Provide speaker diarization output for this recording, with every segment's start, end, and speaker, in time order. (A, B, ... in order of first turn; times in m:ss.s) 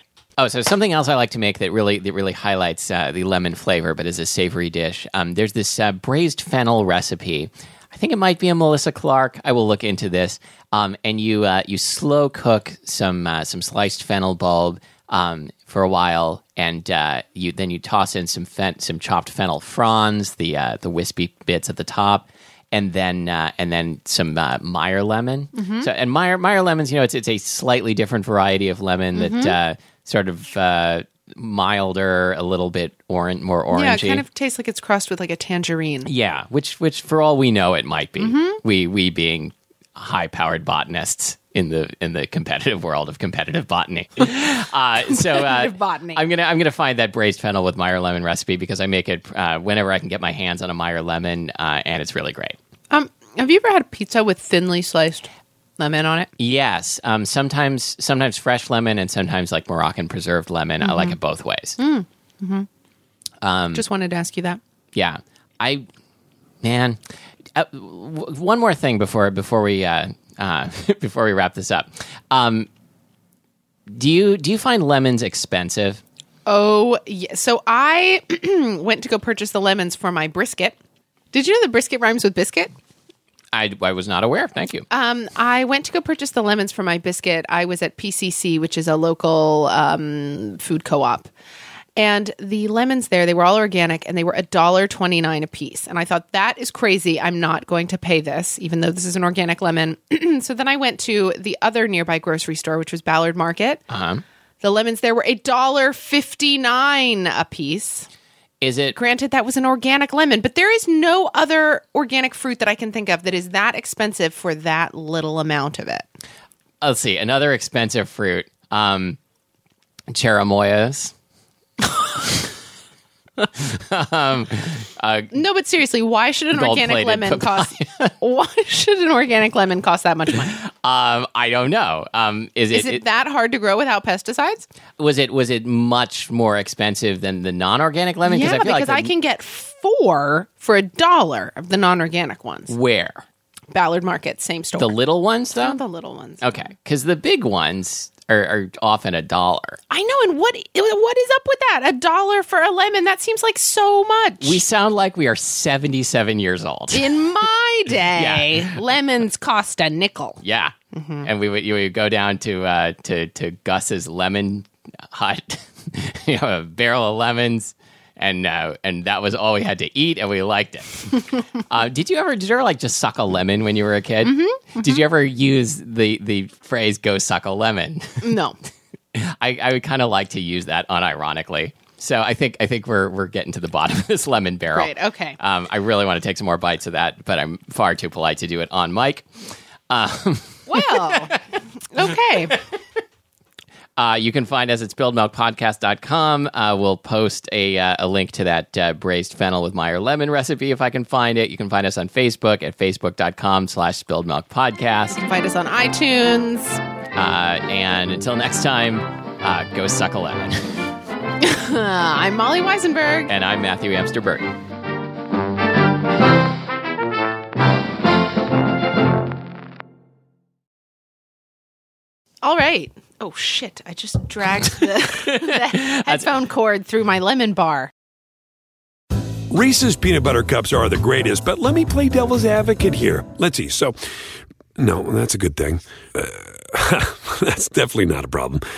0:00.4-0:34.2 A
0:25.5-0:25.9 B
0:29.2-0:29.6 B
0:33.7-0:36.1 B
0:36.1-0:52.6 A
0:38.2-0:38.6 B
0:45.1-0:46.2 B
0:52.9-0:56.3 B
0:56.4-1:01.8 A
1:00.8-1:01.2 B
1:01.8-1:02.7 B
1:03.4-1:03.8 A
1:03.7-1:04.6 B
1:04.9-1:05.8 A
1:06.6-1:07.0 A
1:07.6-1:12.7 A
1:13.9-1:16.0 A
1:16.5-1:20.8 B
1:21.3-1:22.7 B
1:23.5-1:24.9 A
1:24.9-1:31.3 B
1:32.0-1:43.8 B
1:43.9-1:44.2 A
1:44.6-1:48.1 B
1:48.6-1:49.0 A
1:49.0-1:56.0 B
1:56.8-1:59.2 A
2:00.1-2:01.1 A
2:02.0-2:02.5 A
2:03.4-2:05.3 A
2:05.3-2:10.6 B
2:06.5-2:08.1 A
2:10.5-2:13.0 A
2:12.7-2:14.7 B
2:15.0-2:19.1 A
2:18.2-2:22.7 B
2:22.7-2:23.2 A
2:23.7-2:25.0 B
2:24.8-2:25.8 A
2:25.5-2:26.4 B
2:26.4-2:29.8 A
2:29.9-2:34.6 B
2:34.4-2:37.1 A
2:36.9-2:40.4 B
2:38.1-2:38.8 A
2:40.4-2:58.4 A
2:40.9-2:41.3 B
2:54.2-2:55.0 B
2:58.2-2:58.6 B
2:59.2-3:09.3 A
3:04.7-3:05.4 B
3:09.9-3:11.4 A
3:10.7-3:11.4 B
3:11.9-3:12.6 B
3:14.0-3:25.2 A
3:25.1-3:26.8 B
3:27.2-3:30.6 A
3:31.4-3:33.3 B
3:33.3-3:34.5 A
3:42.4-3:47.9 B
3:44.8-3:46.2 A
3:49.5-3:54.0 C
3:54.8-3:58.6 C